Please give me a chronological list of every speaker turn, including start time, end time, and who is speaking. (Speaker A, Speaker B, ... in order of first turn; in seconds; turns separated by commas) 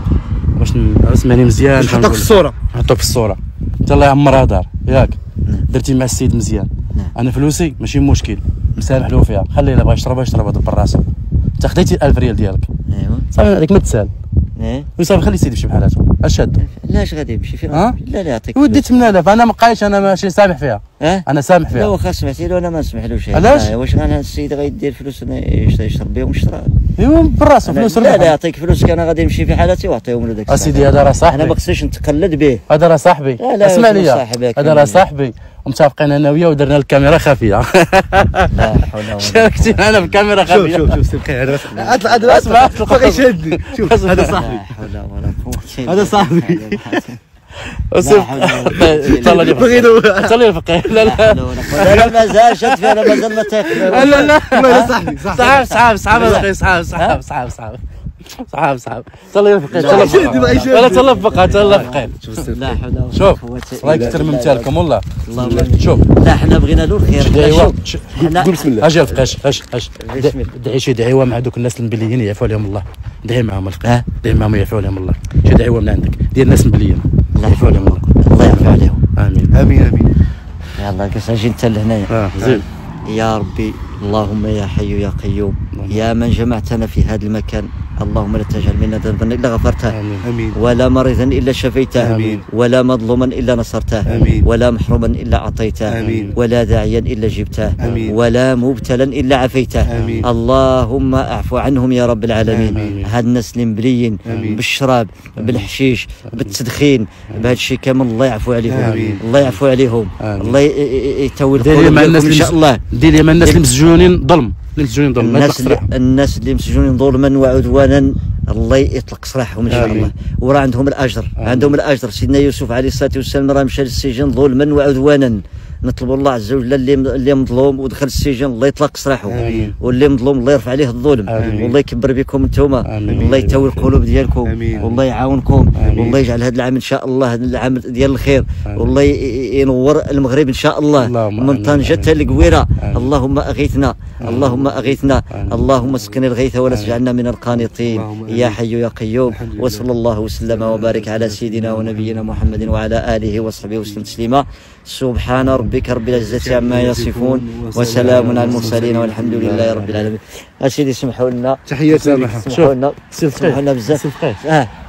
Speaker A: 0.6-5.2, Speaker B: 1.8-2.5, Speaker A: 5.7-11.0, Speaker A: 11.6-12.7, Speaker C: 12.9-13.3, Speaker A: 13.3-14.1, Speaker C: 14.6-14.9, Speaker A: 15.0-16.6, Speaker C: 16.6-19.1, Speaker A: 17.7-17.9, Speaker A: 18.5-21.9, Speaker C: 21.0-26.7, Speaker A: 23.3-23.7, Speaker A: 27.0-28.3, Speaker C: 27.6-32.6, Speaker A: 30.5-31.5, Speaker A: 32.7-41.0, Speaker C: 33.4-35.0, Speaker C: 38.5-40.5, Speaker B: 40.5-44.6, Speaker C: 41.6-42.7, Speaker A: 42.2-44.4, Speaker C: 44.2-47.2, Speaker B: 45.9-47.0, Speaker A: 47.9-62.1, Speaker C: 48.0-49.9, Speaker B: 48.7-50.4, Speaker C: 50.9-57.2, Speaker B: 51.8-52.3, Speaker B: 53.7-55.5, Speaker C: 59.7-64.7, Speaker B: 59.7-61.2, Speaker B: 62.2-62.8, Speaker A: 63.1-65.0, Speaker B: 63.8-64.2, Speaker C: 65.2-69.3, Speaker B: 65.4-65.8, Speaker A: 65.6-66.0, Speaker A: 67.2-79.5, Speaker B: 68.2-68.9, Speaker C: 70.0-70.5, Speaker C: 77.3-79.0, Speaker B: 79.5-80.1, Speaker C: 80.8-82.1, Speaker A: 82.1-82.6, Speaker B: 82.4-82.6, Speaker C: 83.0-90.0, Speaker A: 85.7-86.1, Speaker A: 89.9-90.2, Speaker B: 90.2-90.6, Speaker C: 90.5-112.8, Speaker B: 92.0-92.4, Speaker A: 92.0-92.4, Speaker B: 94.0-94.5, Speaker B: 95.9-96.3, Speaker A: 96.0-96.3, Speaker B: 97.8-98.2, Speaker B: 99.9-100.3, Speaker A: 99.9-100.3, Speaker B: 102.5-103.0, Speaker A: 102.7-103.1, Speaker B: 104.2-104.6, Speaker A: 104.3-104.6, Speaker A: 105.4-105.7, Speaker A: 106.3-106.5, Speaker B: 108.7-109.2, Speaker A: 108.8-109.6, Speaker A: 110.2-110.6, Speaker A: 111.5-115.9, Speaker C: 113.4-114.1, Speaker C: 115.2-161.6, Speaker A: 119.7-120.1, Speaker B: 119.7-120.1, Speaker A: 121.4-121.7, Speaker B: 129.3-129.7, Speaker A: 129.4-129.7, Speaker A: 131.3-131.7, Speaker B: 131.4-131.7, Speaker A: 132.8-133.9, Speaker B: 133.1-133.5, Speaker B: 134.4-134.9, Speaker A: 135.8-136.1, Speaker B: 135.8-136.2, Speaker A: 138.7-138.9, Speaker A: 141.0-143.1, Speaker A: 144.2-144.6, Speaker B: 144.3-145.0, Speaker A: 145.3-145.7, Speaker B: 145.7-146.2, Speaker A: 146.7-147.0, Speaker B: 147.8-148.6, Speaker B: 149.3-149.9, Speaker B: 150.5-152.7, Speaker B: 155.4-160.1, Speaker A: 157.9-158.8, Speaker B: 161.7-162.4, Speaker A: 161.9-164.4, Speaker C: 162.3-164.7